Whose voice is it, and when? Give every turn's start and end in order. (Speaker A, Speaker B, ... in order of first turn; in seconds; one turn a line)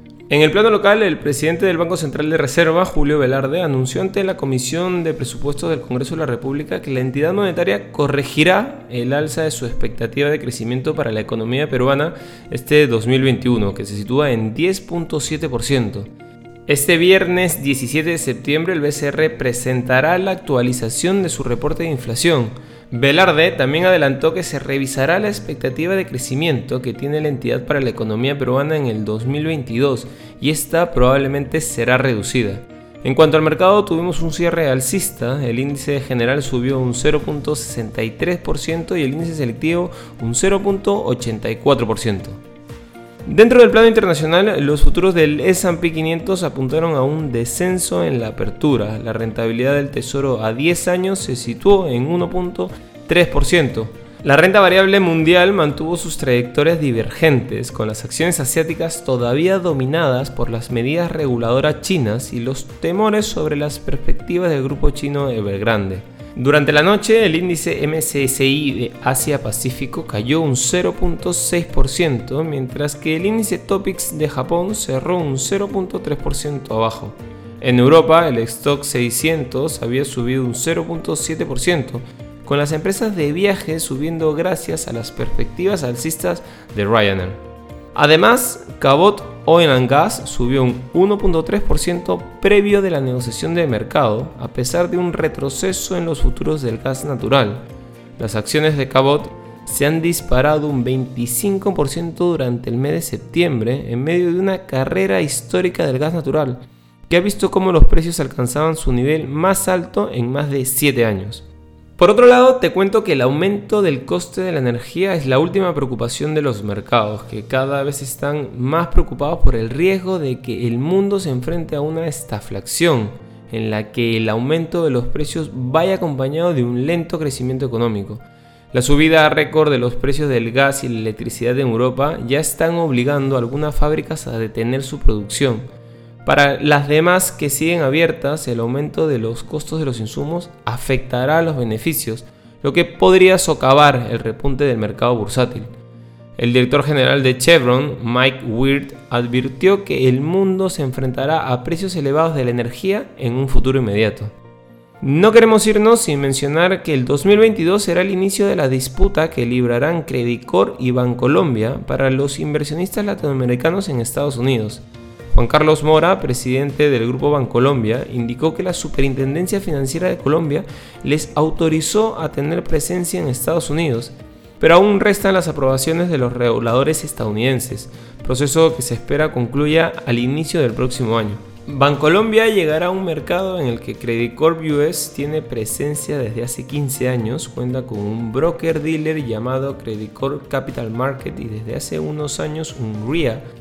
Speaker A: 0.3-16.1
Speaker A: 16.7-42.4
Speaker A: 43.2-87.4
Speaker A: 87.9-97.6
Speaker A: 98.2-111.5
Speaker A: 112.0-135.7
Speaker A: 136.2-145.7
Speaker A: 146.4-154.3
Speaker A: 155.0-193.4